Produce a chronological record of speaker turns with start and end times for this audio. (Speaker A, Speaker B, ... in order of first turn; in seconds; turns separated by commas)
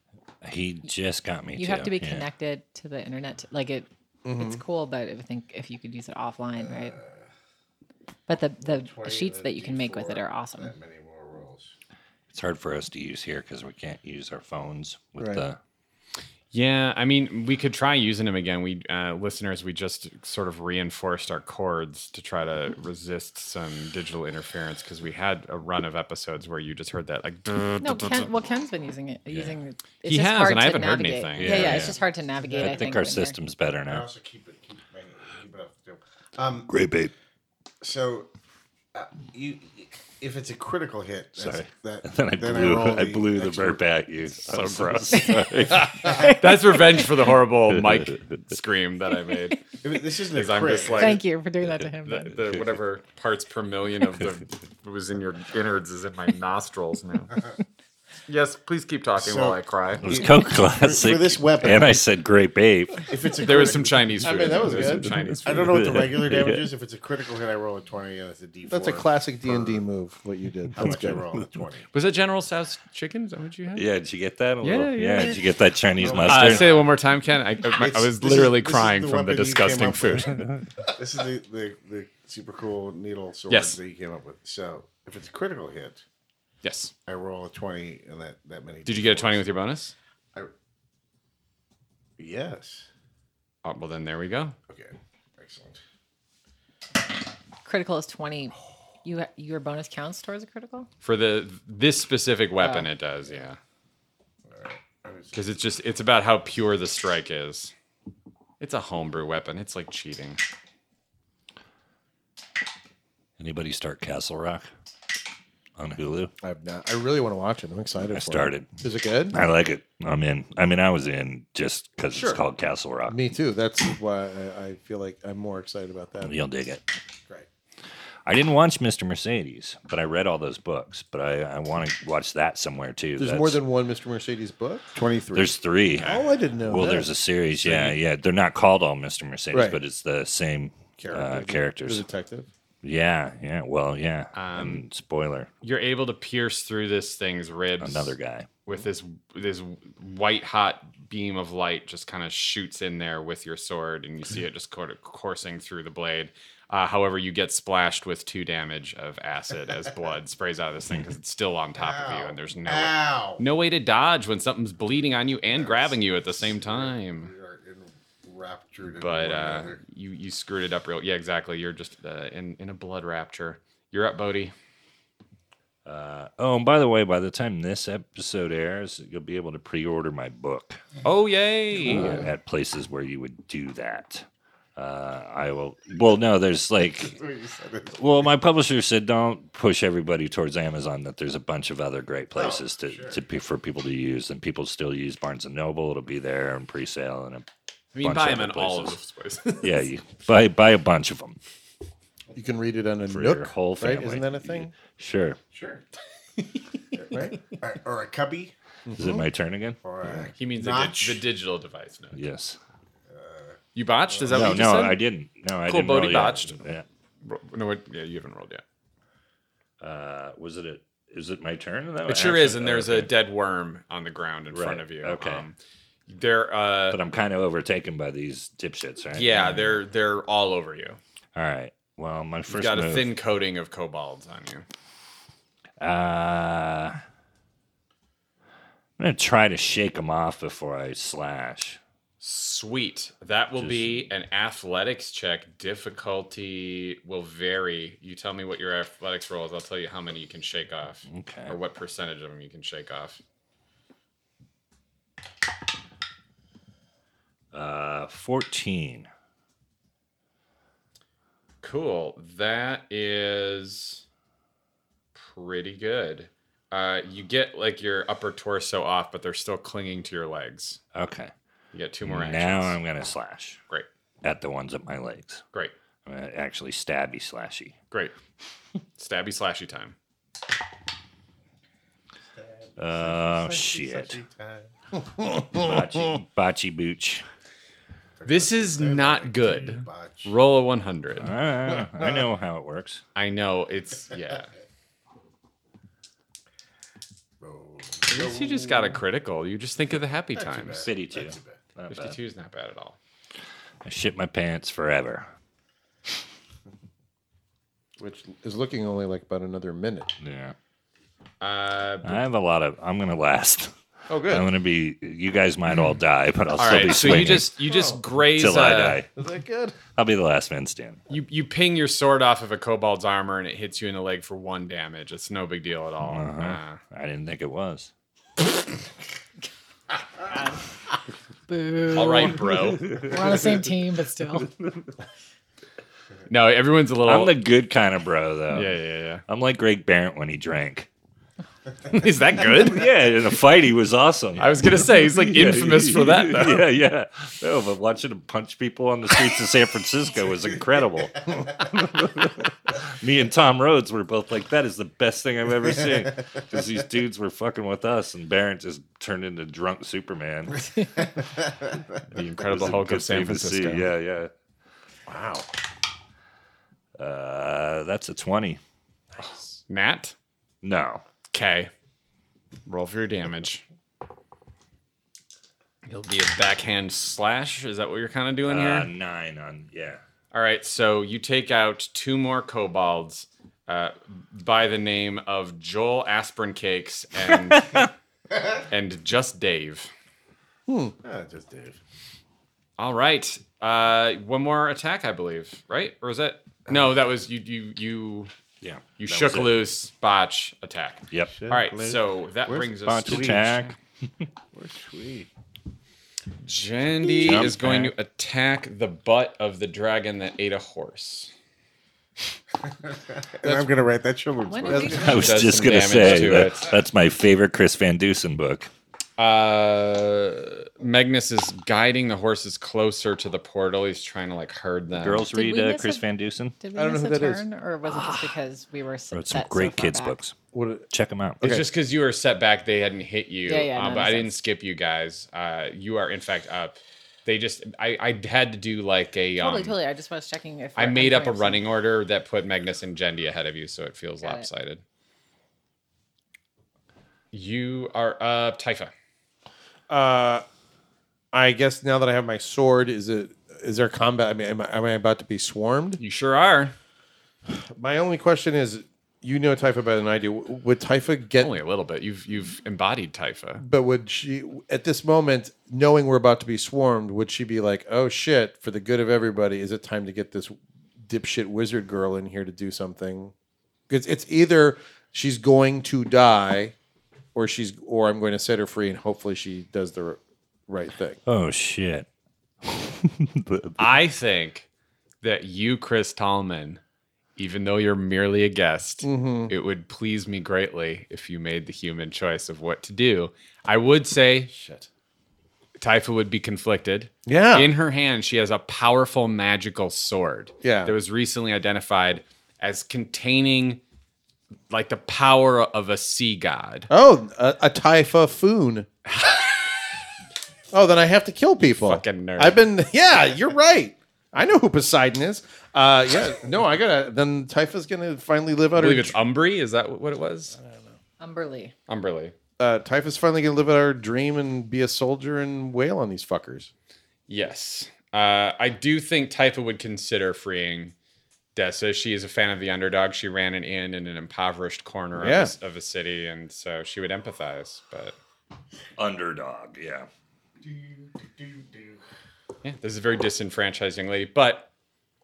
Speaker A: 0.4-2.3, Speaker B: 1.6-7.0, Speaker C: 4.2-4.6, Speaker D: 6.6-7.3, Speaker B: 8.3-10.7, Speaker D: 8.6-11.7, Speaker A: 12.3-15.6, Speaker E: 16.5-28.3, Speaker B: 27.8-33.4, Speaker A: 29.3-29.6, Speaker E: 30.1-32.0, Speaker A: 31.4-32.0, Speaker A: 32.5-34.1, Speaker D: 32.7-32.9, Speaker D: 33.9-36.7, Speaker A: 36.7-37.1, Speaker D: 37.8-38.3, Speaker D: 38.9-43.8, Speaker A: 41.4-46.4, Speaker E: 44.5-45.4, Speaker B: 45.1-47.1, Speaker E: 46.2-49.7, Speaker A: 47.7-48.3, Speaker D: 49.8-51.2, Speaker E: 50.3-51.2, Speaker B: 50.9-52.4, Speaker E: 52.1-57.4, Speaker E: 58.3-60.2, Speaker D: 59.2-62.0, Speaker A: 60.0-63.1, Speaker D: 63.0-69.8, Speaker E: 63.4-65.9, Speaker C: 64.3-65.0, Speaker A: 65.2-66.7, Speaker C: 68.7-71.2, Speaker D: 70.8-71.9, Speaker E: 71.9-73.8, Speaker A: 73.8-76.8, Speaker E: 74.6-75.4, Speaker D: 76.0-76.9, Speaker E: 76.1-80.4, Speaker D: 77.8-86.0, Speaker E: 83.5-83.8, Speaker E: 86.6-86.9, Speaker D: 87.1-89.5, Speaker E: 88.9-89.9, Speaker D: 92.2-92.9, Speaker E: 93.6-94.6, Speaker D: 94.7-95.8, Speaker B: 97.7-100.9, Speaker E: 101.0-103.6, Speaker B: 102.6-102.9, Speaker D: 104.5-105.4, Speaker E: 105.3-107.7, Speaker E: 108.6-110.4, Speaker A: 113.4-114.7, Speaker A: 115.8-116.3, Speaker C: 116.4-119.4, Speaker A: 118.1-118.8, Speaker A: 119.3-123.2, Speaker C: 122.1-122.4, Speaker C: 123.1-126.3, Speaker A: 126.2-126.9, Speaker A: 128.3-133.6, Speaker C: 133.2-134.9, Speaker D: 134.9-135.6, Speaker A: 135.3-142.0, Speaker C: 136.0-137.1, Speaker E: 137.6-138.0, Speaker C: 139.5-139.8, Speaker C: 141.0-142.5, Speaker A: 142.8-145.5, Speaker E: 144.3-144.8, Speaker E: 145.6-148.2, Speaker A: 147.8-148.5, Speaker E: 148.7-167.3, Speaker D: 161.8-163.4, Speaker D: 165.5-169.8, Speaker E: 169.0-174.5, Speaker A: 175.8-180.8, Speaker E: 181.0-182.3, Speaker A: 181.8-187.2, Speaker D: 187.0-188.2, Speaker A: 187.9-197.5, Speaker D: 192.3-193.2, Speaker E: 197.9-199.6, Speaker A: 198.0-199.0, Speaker A: 199.6-201.4, Speaker C: 202.3-204.8, Speaker A: 203.1-205.4, Speaker D: 205.5-205.8, Speaker D: 207.0-208.5, Speaker C: 207.1-207.4, Speaker C: 208.9-209.2, Speaker A: 208.9-209.8, Speaker D: 209.8-211.2, Speaker E: 210.4-212.2, Speaker A: 212.1-212.6, Speaker D: 213.1-214.8, Speaker E: 213.8-215.0, Speaker A: 214.3-216.8, Speaker E: 215.7-216.6, Speaker E: 217.2-218.6, Speaker A: 219.8-223.1, Speaker E: 222.1-225.6, Speaker A: 224.5-225.5, Speaker E: 226.1-227.0, Speaker A: 226.9-229.8, Speaker E: 229.1-231.0, Speaker A: 231.3-233.1, Speaker E: 232.5-234.7, Speaker A: 235.8-237.0, Speaker A: 239.0-241.8, Speaker E: 242.2-253.2, Speaker A: 243.6-244.1, Speaker A: 251.1-251.6, Speaker A: 257.5-259.1, Speaker E: 261.6-264.0, Speaker E: 265.1-270.8, Speaker A: 270.9-271.3, Speaker E: 271.7-272.8, Speaker A: 272.0-273.6, Speaker A: 274.2-275.4, Speaker A: 276.1-277.8, Speaker E: 279.0-279.9, Speaker D: 282.3-285.4, Speaker A: 282.8-284.2, Speaker A: 285.5-287.2, Speaker D: 288.2-290.4, Speaker E: 288.3-291.3, Speaker A: 291.2-293.0, Speaker D: 291.8-292.2, Speaker E: 293.2-294.5, Speaker D: 297.4-298.8, Speaker E: 298.1-300.8, Speaker D: 300.3-301.6, Speaker A: 300.8-302.2, Speaker E: 301.9-303.0, Speaker A: 303.8-305.3, Speaker C: 308.0-310.1, Speaker A: 310.2-310.6, Speaker E: 311.4-312.2, Speaker A: 312.0-317.6, Speaker C: 314.1-314.5, Speaker E: 316.6-319.0, Speaker C: 317.7-318.0, Speaker A: 318.4-319.1, Speaker C: 319.1-319.8, Speaker A: 319.8-321.0, Speaker E: 321.1-326.8, Speaker A: 326.1-327.9, Speaker B: 331.5-334.5, Speaker E: 331.9-333.0, Speaker A: 332.8-333.1, Speaker E: 336.3-337.3, Speaker A: 337.1-338.8, Speaker E: 338.5-339.2, Speaker A: 339.3-340.9, Speaker E: 341.9-342.9, Speaker A: 342.7-360.7, Speaker E: 344.4-346.6, Speaker D: 361.2-361.8, Speaker E: 362.1-363.9, Speaker A: 362.4-364.3, Speaker D: 365.1-365.4, Speaker A: 367.0-368.6, Speaker E: 369.2-370.1, Speaker A: 370.6-371.0, Speaker E: 371.3-371.7, Speaker E: 372.7-373.6, Speaker E: 375.9-378.9, Speaker A: 378.5-380.0, Speaker E: 380.3-387.9, Speaker A: 387.6-387.9, Speaker E: 388.7-389.9, Speaker C: 390.7-390.9, Speaker D: 391.0-391.8, Speaker E: 392.8-398.3, Speaker A: 398.6-399.6, Speaker E: 399.0-403.5, Speaker D: 401.3-403.6, Speaker A: 402.8-404.3, Speaker D: 404.5-405.3, Speaker E: 406.4-411.3, Speaker A: 407.1-407.9, Speaker D: 412.9-415.4, Speaker C: 413.4-413.7, Speaker B: 414.5-415.5, Speaker C: 414.7-415.0, Speaker A: 414.9-418.7, Speaker E: 415.0-416.7, Speaker E: 419.2-425.3, Speaker A: 425.0-426.6, Speaker B: 425.3-426.0, Speaker B: 426.6-430.2, Speaker C: 426.8-427.4, Speaker A: 429.1-430.4, Speaker C: 430.5-430.9, Speaker A: 430.9-431.4, Speaker C: 431.4-431.7, Speaker E: 431.4-439.8, Speaker B: 433.5-434.3, Speaker B: 439.4-441.6, Speaker E: 440.8-444.8, Speaker B: 444.2-444.5, Speaker E: 447.3-448.9, Speaker C: 449.9-450.4, Speaker C: 451.3-456.0, Speaker E: 456.0-456.8, Speaker C: 457.5-461.6, Speaker E: 461.4-463.6, Speaker C: 463.6-473.3, Speaker C: 473.9-476.8, Speaker C: 477.3-481.2, Speaker A: 481.3-482.1, Speaker A: 482.6-483.8, Speaker E: 483.8-484.7, Speaker E: 485.2-486.8, Speaker E: 487.4-494.5, Speaker C: 489.0-489.5, Speaker E: 495.8-503.8, Speaker C: 497.3-497.7, Speaker C: 500.6-500.9, Speaker E: 504.7-506.9, Speaker C: 506.9-508.9, Speaker E: 509.1-509.4, Speaker C: 510.7-519.1, Speaker E: 511.8-512.6, Speaker E: 518.8-520.6, Speaker C: 520.6-521.0, Speaker B: 521.2-521.7, Speaker E: 521.9-522.4, Speaker C: 522.6-526.7, Speaker E: 527.3-530.9, Speaker E: 531.5-538.2, Speaker C: 535.2-535.5, Speaker A: 539.0-540.1, Speaker D: 540.6-542.0, Speaker E: 542.6-544.7